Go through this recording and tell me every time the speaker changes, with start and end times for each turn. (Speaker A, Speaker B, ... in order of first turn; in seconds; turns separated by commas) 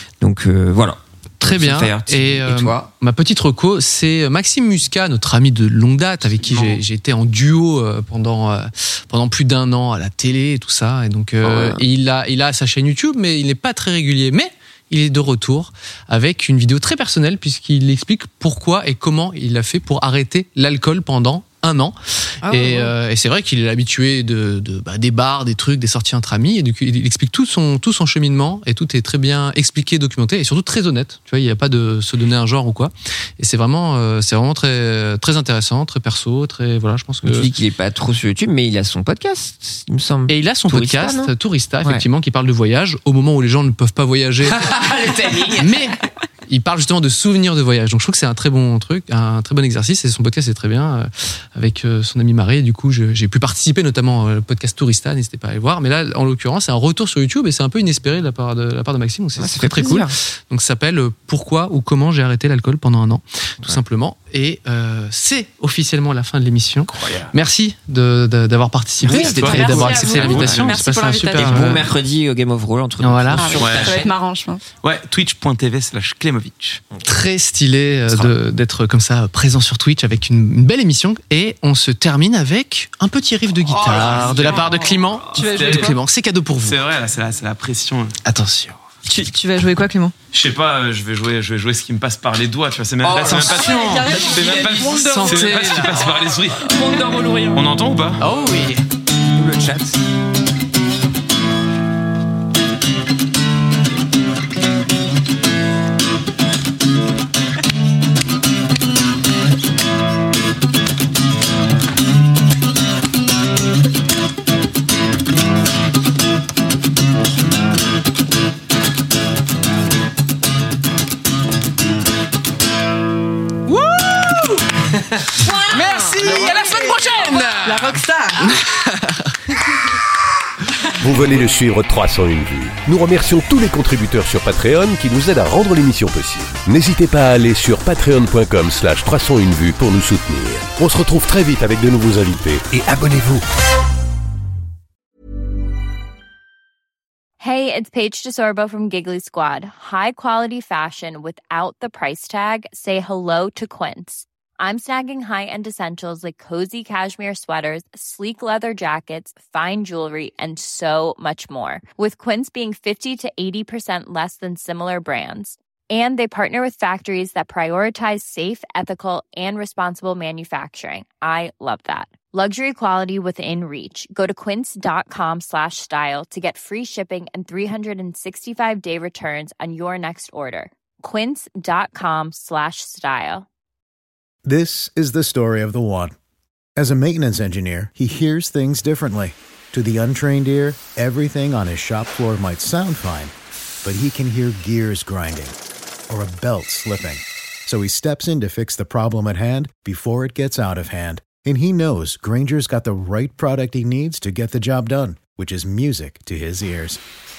Speaker A: 0.2-2.9, Speaker B: 1.4-37.5, Speaker C: 6.4-6.8, Speaker A: 11.4-11.8, Speaker D: 22.4-22.8, Speaker A: 22.5-22.9, Speaker A: 37.2-41.3, Speaker B: 40.3-44.7, Speaker A: 44.4-45.9, Speaker B: 45.5-71.9, Speaker A: 59.4-60.1, Speaker C: 67.0-67.3, Speaker C: 69.0-70.8, Speaker A: 69.1-70.4, Speaker E: 69.4-71.8, Speaker A: 71.3-74.1, Speaker B: 73.0-73.5, Speaker E: 73.4-74.6, Speaker C: 73.6-74.1, Speaker C: 74.8-76.8, Speaker B: 77.0-86.8, Speaker A: 78.1-78.3, Speaker C: 83.8-84.7, Speaker D: 85.3-86.0, Speaker C: 85.3-86.0, Speaker C: 86.6-88.2, Speaker B: 88.2-88.8, Speaker D: 89.1-90.1, Speaker C: 90.3-96.7, Speaker A: 93.0-93.8, Speaker B: 93.2-93.5, Speaker E: 93.6-97.7, Speaker B: 94.9-95.9, Speaker C: 97.5-98.2, Speaker B: 98.2-98.8, Speaker A: 99.3-100.0, Speaker B: 123.7-124.7, Speaker D: 125.4-128.6, Speaker B: 125.5-129.3, Speaker F: 131.0-143.4, Speaker G: 147.4-183.4, Speaker H: 184.4-186.1, Speaker H: 186.8-193.3, Speaker H: 193.8-195.6, Speaker H: 196.1-207.0